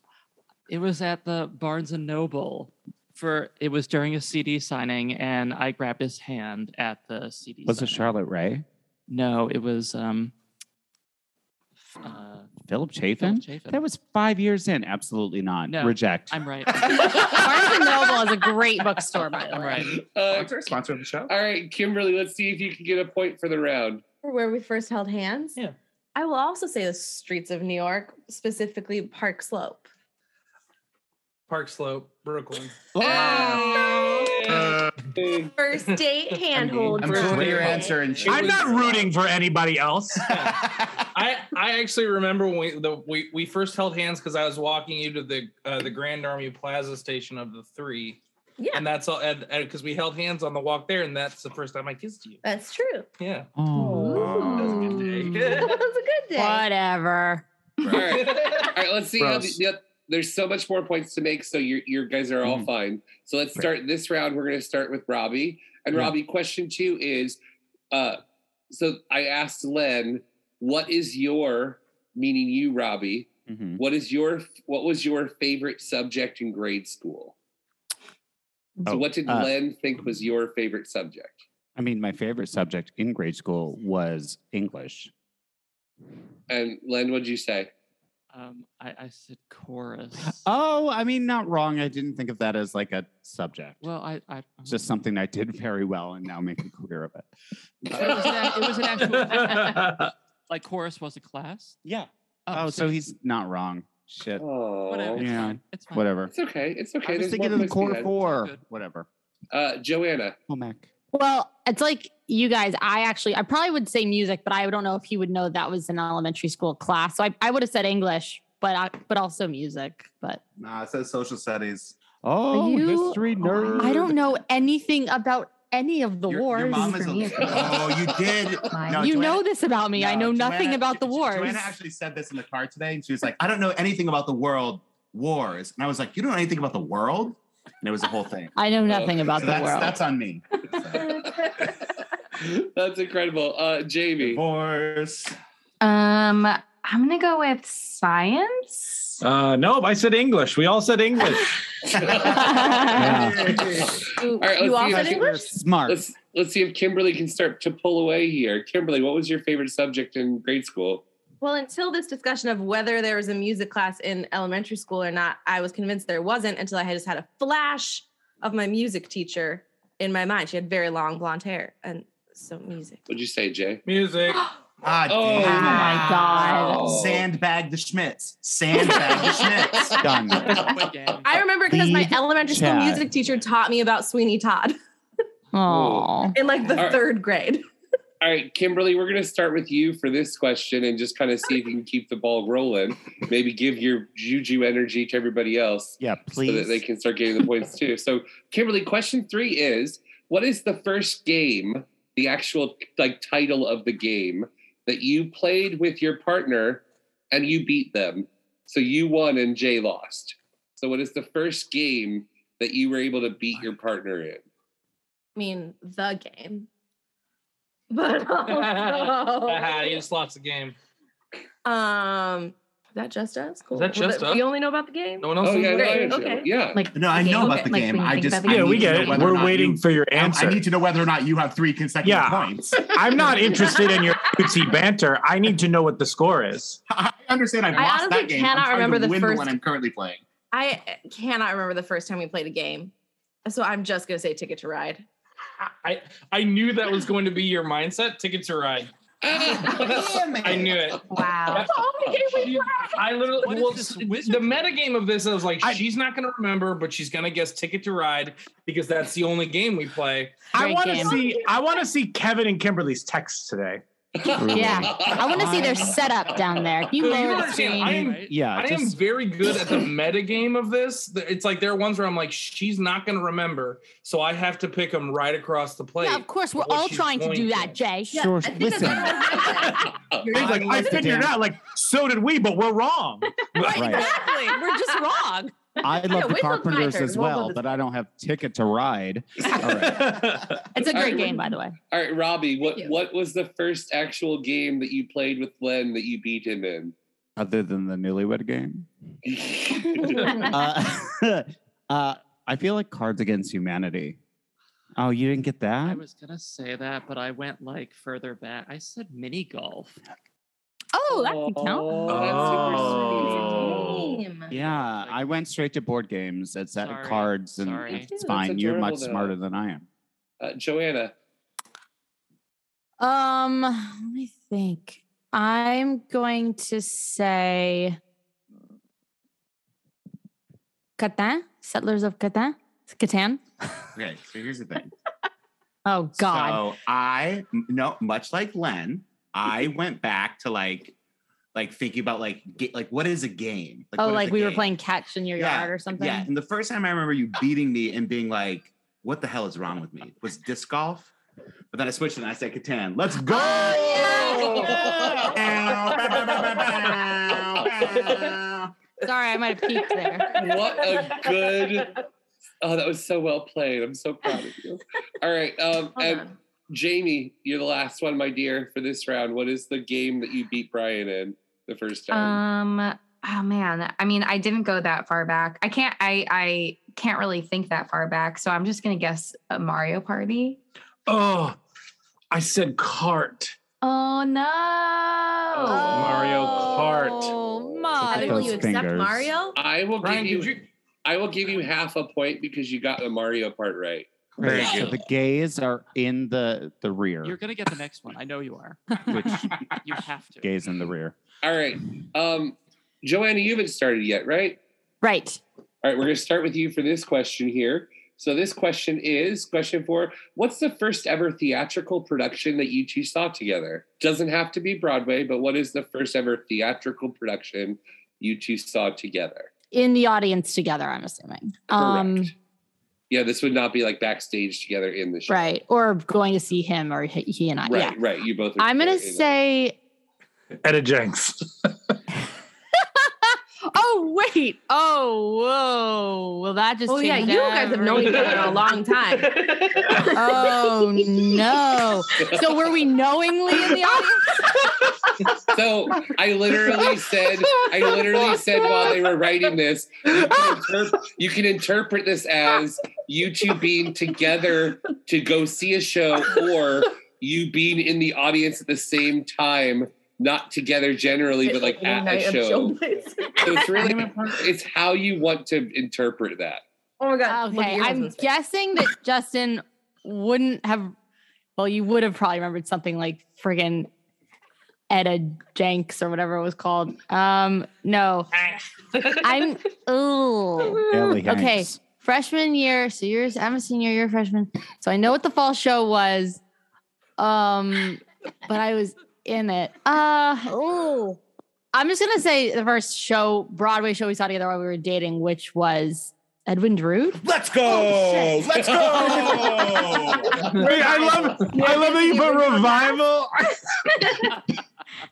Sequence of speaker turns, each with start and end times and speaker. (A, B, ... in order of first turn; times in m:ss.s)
0:00.7-0:08.1 A
0:07.6-0:08.6 B
0:09.1-0:10.3 A
0:12.0-0:12.5 A
0:12.7-0:16.4 B
0:13.2-0:13.8 A
0:15.7-0:17.1 A
0:16.8-0:17.8 C
0:17.0-0:19.8 D
0:19.6-0:20.0 A
0:20.1-0:20.6 E
0:20.3-0:21.3 C
0:21.3-0:24.0 E
0:24.2-0:25.6 F
0:26.1-0:29.9 F
0:31.5-0:33.6 G
0:33.0-0:34.0 B
0:33.0-0:34.4 F
0:34.4-0:34.9 G
0:35.1-0:35.5 E
0:35.5-0:37.9 F
0:35.8-0:39.0 G
0:36.8-0:39.1 C
0:37.1-0:37.4 B
0:38.2-0:40.3 H
0:40.2-0:48.2 G
0:40.4-0:40.8 C
0:48.6-0:48.8 F
0:48.7-0:52.4 G
0:52.4-0:53.1 F
0:53.2-0:53.5 G
0:53.5-0:55.0 B
0:53.8-0:54.7 F
0:54.2-0:55.6 D
0:54.6-0:55.8 G
0:55.3-0:56.6 F
0:56.4-0:57.4 D
0:57.8-1:07.4 E
0:57.9-0:58.7 G
0:59.2-0:59.6 H
1:02.4-1:02.7 B
1:07.9-1:08.2 E
1:08.7-1:17.3 E
1:13.5-1:13.8 B
1:18.8-1:19.5 B
1:18.8-1:21.4 E
1:21.8-1:25.1 B
1:26.5-1:27.7 E
1:28.3-1:30.4 A
1:30.2-1:33.8 B
1:33.8-1:34.8 A
1:34.6-1:37.3 B
1:37.9-1:41.8 A
1:38.4-1:40.0 G
1:41.8-1:44.4 B
1:42.5-1:43.0 A
1:44.4-1:45.2 E
1:44.9-1:46.2 A
1:45.2-1:46.3 B
1:46.3-1:48.1 E
1:47.0-1:49.1 B
1:47.8-1:48.6 A
1:49.5-1:50.4 E
1:50.5-1:50.9 B
1:51.1-2:00.4 D
2:00.6-2:01.9 C
2:02.2-2:04.1 B
2:02.5-2:03.2 D
2:03.2-2:04.2 C
2:03.8-2:07.0 D
2:06.3-2:18.5 C
2:06.7-2:08.0 I
2:07.4-2:08.0 E
2:08.7-2:09.1 I
2:08.9-2:11.7 D
2:18.6-2:20.0 D
2:18.9-2:19.2 E
2:19.3-2:21.3 C
2:22.4-2:24.4 E
2:24.2-2:25.3 C
2:25.8-2:29.2 I
2:29.2-2:31.6 H
2:31.9-2:32.7 E
2:32.0-2:34.0 C
2:32.4-2:33.1 D
2:32.9-2:33.8 B
2:34.2-2:35.5 F
2:34.4-2:41.0 E
2:34.8-2:36.0 B
2:41.4-2:53.0 F
2:53.1-2:53.8 E
2:53.8-2:54.4 G
2:54.8-3:00.0 C
2:55.1-2:57.2 E
2:55.4-2:56.9 D
3:00.0-3:00.7 B
3:00.0-3:01.6 A
3:01.2-3:04.8 F
3:01.7-3:03.1 B
3:03.0-3:03.5 A
3:05.5-3:06.4 D
3:05.7-3:06.1 E
3:06.3-3:07.6 F
3:06.7-3:07.0 E
3:08.2-3:34.4 E
3:16.0-3:16.8 B
3:35.4-3:36.7 F
3:37.9-3:40.0 F
3:38.4-3:40.8 G
3:41.6-3:46.5 F
3:43.7-3:44.4 G
3:45.2-3:46.2 G
3:45.4-3:46.8 E
3:46.7-3:49.3 I
3:46.9-3:53.5 C
3:48.4-3:50.6 H
3:52.0-3:56.8 H
3:56.9-4:00.2 C
3:57.7-3:59.5 F
4:00.5-4:02.9 F
4:03.4-4:05.0 F
4:05.8-4:08.9 G
4:09.2-4:10.0 E
4:09.4-4:20.5 G
4:09.6-4:10.9 C
4:11.1-4:11.7 I
4:11.5-4:13.0 F
4:13.4-4:14.8 A
4:20.5-4:23.8 H
4:20.5-4:21.3 D
4:24.2-4:25.6 E
4:24.4-4:26.1 B
4:24.5-4:28.1 D
4:26.9-4:37.8 G
4:27.8-4:28.5 A
4:28.1-4:29.0 B
4:36.0-4:38.3 D
4:38.1-4:39.6 B
4:38.1-4:41.1 F
4:40.3-4:41.4 B
4:40.3-4:43.6 H
4:43.6-4:45.5 D
4:43.7-4:44.1 B
4:43.9-4:45.1 F
4:45.8-4:50.3 B
4:45.9-4:47.6 F
4:49.8-4:50.5 H
4:50.7-4:51.7 D
4:50.9-4:51.3 E
4:51.9-4:56.9 E
4:57.4-4:58.9 B
4:59.2-5:00.4 E
5:00.2-5:04.2 B
5:05.0-5:06.0 B
5:05.8-5:10.0 A
5:10.9-5:12.1 D
5:11.1-5:14.1 E
5:12.1-5:14.1 H
5:12.1-5:14.5 F
5:14.5-5:19.9 B
5:14.5-5:15.3 A
5:16.8-5:18.1 A
5:17.9-5:19.3 E
5:20.4-5:21.1 E
5:23.0-5:28.0 D
5:31.0-5:33.4 D
5:33.9-5:34.9 C
5:35.8-5:36.6 D
5:36.1-5:40.9 C
5:41.5-5:44.7 C
5:44.0-5:46.3 D
5:45.4-5:51.1 C
5:51.7-5:58.7 C
5:53.6-5:54.4 D
5:54.6-5:55.1 E
5:59.0-6:00.3 D
6:00.3-6:02.0 E
6:02.6-6:12.4 E
6:06.0-6:06.3 F
6:12.1-6:20.6 I
6:21.1-6:21.6 H
6:22.3-6:23.5 H
6:23.8-6:26.0 I
6:25.7-6:28.7 D
6:25.9-6:27.4 H
6:28.0-6:29.3 B
6:28.0-6:29.6 F
6:29.5-6:34.9 E
6:30.0-6:30.6 G
6:34.4-6:37.4 B
6:34.4-6:34.8 C
6:37.2-6:40.5 A
6:39.0-6:39.6 B
6:40.4-6:41.1 B
6:41.4-6:44.6 E
6:45.0-6:45.4 D
6:45.8-6:59.5 E
6:59.7-7:02.3 D
7:01.7-7:02.3 E
7:03.1-7:05.4 E
7:05.3-7:08.0 D
7:07.6-7:09.4 E
7:08.6-7:09.8 D
7:10.6-7:11.7 H
7:13.3-7:18.3 D
7:16.9-7:20.6 F
7:18.0-7:20.0 G
7:20.1-7:24.4 D
7:25.5-7:42.8 E
7:41.4-7:44.2 F
7:43.4-7:46.6 E
7:47.0-7:48.3 F
7:47.2-7:50.9 D
7:51.6-7:53.9 D
7:54.9-7:58.3 D
7:58.3-7:59.5 G
7:59.2-8:06.4 D
8:00.9-8:01.8 B
8:07.2-8:11.2 D
8:11.7-8:18.4 D
8:17.2-8:20.4 C
8:18.5-8:19.6 E
8:20.5-8:21.5 G
8:20.6-8:23.6 H
8:20.8-8:22.6 F